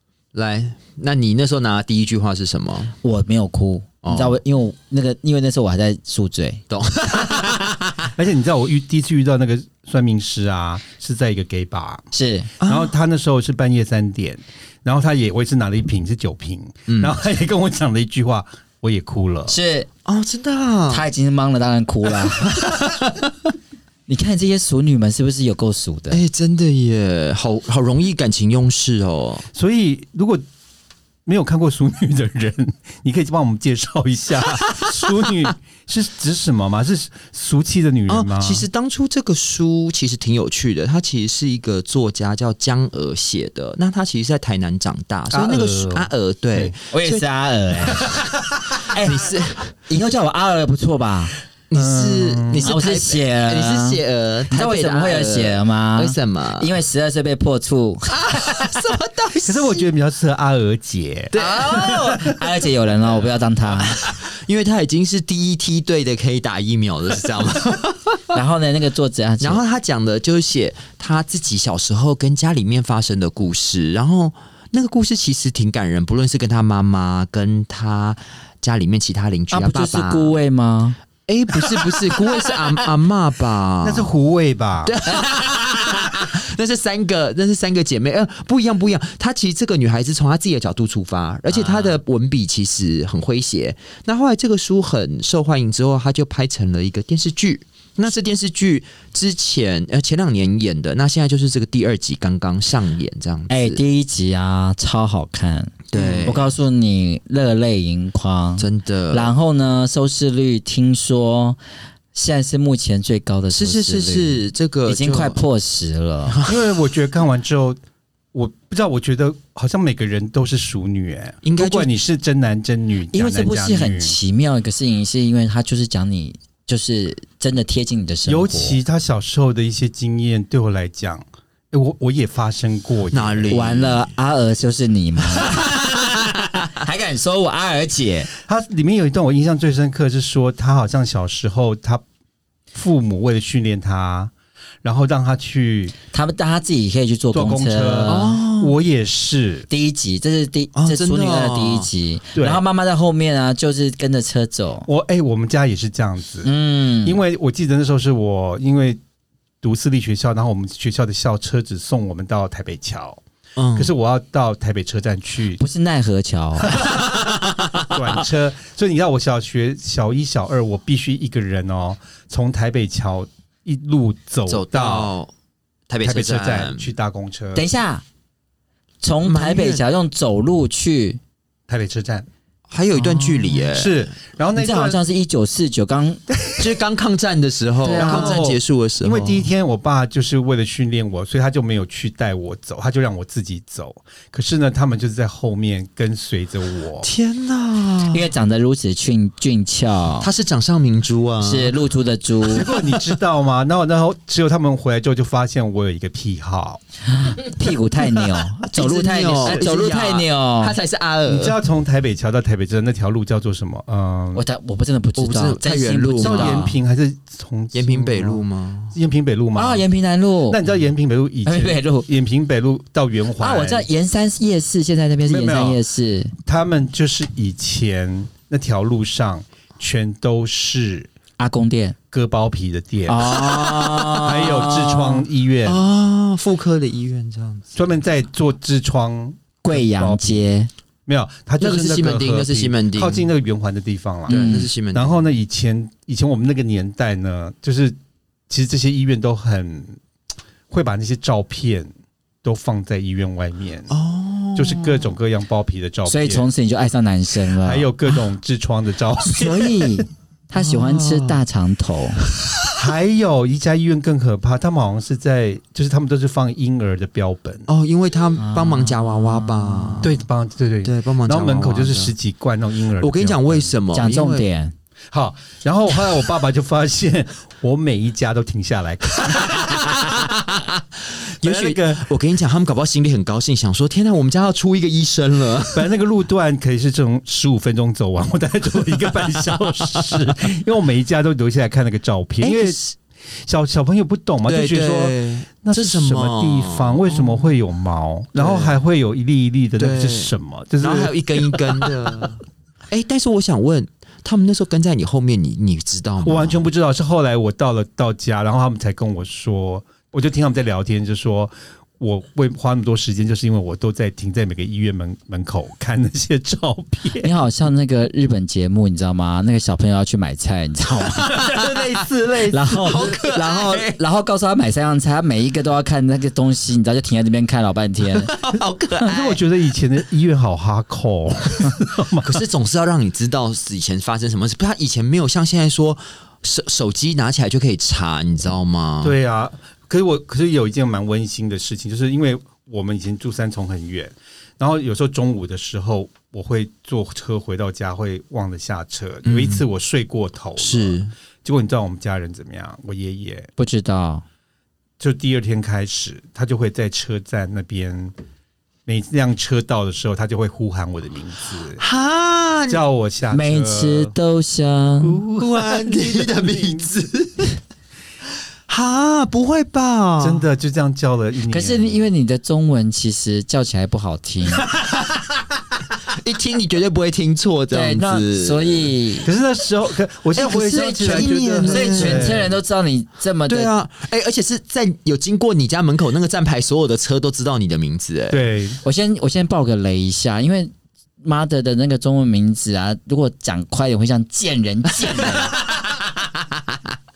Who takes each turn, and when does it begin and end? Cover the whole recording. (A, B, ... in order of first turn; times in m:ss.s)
0:00.3-0:03.0 A
0:03.0-0:06.6 B
0:04.0-0:04.4 A
0:06.7-0:08.1 A
0:08.2-0:12.0 C
0:12.1-0:12.5 B
0:12.6-0:12.9 A
0:12.6-0:19.6 C
0:16.9-0:17.2 A
0:19.5-0:19.9 B
0:20.0-0:21.0 A
0:20.9-0:23.0 B
0:24.1-0:26.2 B
0:26.1-0:29.5 A
0:29.5-0:30.4 C
0:31.2-0:38.7 C
0:38.1-0:47.2 A
0:45.3-0:46.8 C
0:46.9-0:49.3 B
0:48.8-0:49.7 A
0:49.9-0:51.3 B
0:51.7-0:56.7 A
0:51.7-0:52.7 C
0:52.6-0:58.5 B
0:58.1-0:59.8 A
0:59.4-1:01.3 C
1:01.3-1:02.3 A
1:01.4-1:04.0 B
1:03.8-1:08.4 A
1:08.3-1:09.6 B
1:09.4-1:20.4 A
1:19.5-1:21.0 B
1:21.3-1:24.1 A
1:23.8-1:25.1 C
1:24.8-1:43.8 A
1:31.5-1:32.0 C
1:43.5-1:51.6 B
1:45.9-1:46.5 A
1:46.0-1:46.3 C
1:48.6-1:49.3 A
1:52.1-1:56.4 B
1:53.5-1:55.4 A
1:56.3-1:56.6 A
1:56.5-1:57.8 C
1:58.3-2:04.2 C
2:01.4-2:02.0 A
2:03.1-2:08.8 B
2:08.3-2:13.7 C
2:13.1-2:14.1 A
2:13.5-2:16.0 B
2:15.4-2:15.7 A
2:16.7-2:18.3 B
2:18.5-2:22.0 C
2:22.7-2:26.0 C
2:26.1-2:28.4 B
2:27.3-2:29.7 C
2:28.1-2:28.8 A
2:29.7-2:34.9 B
2:30.8-2:31.9 A
2:32.4-2:32.6 C
2:34.9-2:36.5 C
2:36.4-2:37.2 B
2:37.0-2:39.0 C
2:39.6-2:43.2 C
2:43.6-2:43.9 A
2:43.8-2:45.6 C
2:45.6-2:46.8 B
2:46.8-2:47.9 A
2:47.9-2:55.1 C
2:54.5-2:55.3 A
2:55.9-2:56.9 A
2:56.0-2:57.6 C
2:57.6-2:58.0 B
2:59.0-3:01.2 B
2:59.2-2:59.8 A
3:01.7-3:02.3 C
3:02.7-3:04.1 A
3:02.9-3:03.6 B
3:03.7-3:05.0 C
3:04.6-3:06.2 B
3:06.4-3:06.7 C
3:06.6-3:09.5 A
3:07.8-3:08.4 B
3:08.0-3:17.1 C
3:17.0-3:18.3 A
3:18.1-3:20.3 B
3:20.2-3:21.8 A
3:21.4-3:22.7 B
3:22.4-3:26.8 C
3:27.1-3:30.8 B
3:28.4-3:31.6 A
3:31.3-3:34.4 C
3:34.4-3:36.8 B
3:35.2-3:36.7 A
3:36.2-3:39.8 C
3:37.7-3:39.0 A
3:39.6-3:40.6 B
3:40.5-3:43.9 C
3:41.4-3:42.1 B
3:43.4-3:46.3 B
3:45.3-3:45.8 C
3:46.4-3:51.1 C
3:51.4-3:52.0 B
3:52.1-3:53.4 C
3:53.1-3:55.0 B
3:53.4-3:57.8 A
3:54.2-3:55.8 C
3:57.8-4:00.4 C
3:59.6-4:00.7 B
4:01.1-4:08.0 C
4:01.6-4:03.3 A
4:04.3-4:05.2 A
4:04.3-4:04.7 B
4:08.5-4:10.0 C
4:10.7-4:11.9 C
4:12.4-4:13.9 C
4:13.9-4:15.2 A
4:14.6-4:16.5 C
4:16.1-4:17.9 B
4:17.6-4:20.1 C
4:19.2-4:22.2 B
4:20.6-4:21.4 A
4:22.8-4:27.7 C
4:27.7-4:30.1 A
4:28.4-4:30.1 B
4:30.0-4:33.7 C
4:30.8-4:32.1 A
4:33.0-4:34.4 A
4:33.9-4:34.8 B
4:35.1-4:40.2 C
4:39.2-4:45.9 A
4:41.4-4:42.0 C
4:45.7-4:52.8 C
4:49.3-4:50.4 A
4:52.4-4:53.0 A
4:53.3-5:01.9 C
4:54.4-4:57.5 A
4:58.4-4:58.8 A
4:59.8-5:06.6 A
5:06.2-5:17.3 C
5:17.2-5:21.5 B
5:21.2-5:21.5 A
5:21.3-5:23.1 C
5:22.5-5:28.3 B
5:22.8-5:24.0 A
5:28.1-5:29.4 A
5:29.0-5:32.3 C
5:32.2-5:39.2 A
5:39.0-5:53.5 C
5:49.2-5:49.6 A
5:50.6-5:51.1 A
5:53.6-5:54.2 B
5:55.0-5:58.1 C
5:58.9-6:01.8 C
6:01.8-6:02.8 A
6:02.7-6:04.1 C
6:03.3-6:05.2 B
6:05.0-6:06.8 C
6:05.2-6:07.6 A
6:08.7-6:10.4 A
6:10.2-6:12.0 C
6:11.5-6:14.7 B
6:14.6-6:15.3 A
6:16.0-6:18.9 A
6:17.7-6:19.3 B
6:19.2-6:22.5 C
6:20.4-6:23.7 B
6:20.7-6:22.5 A
6:23.5-6:28.4 A
6:28.3-6:28.8 C
6:28.8-6:35.6 B
6:35.6-6:36.0 A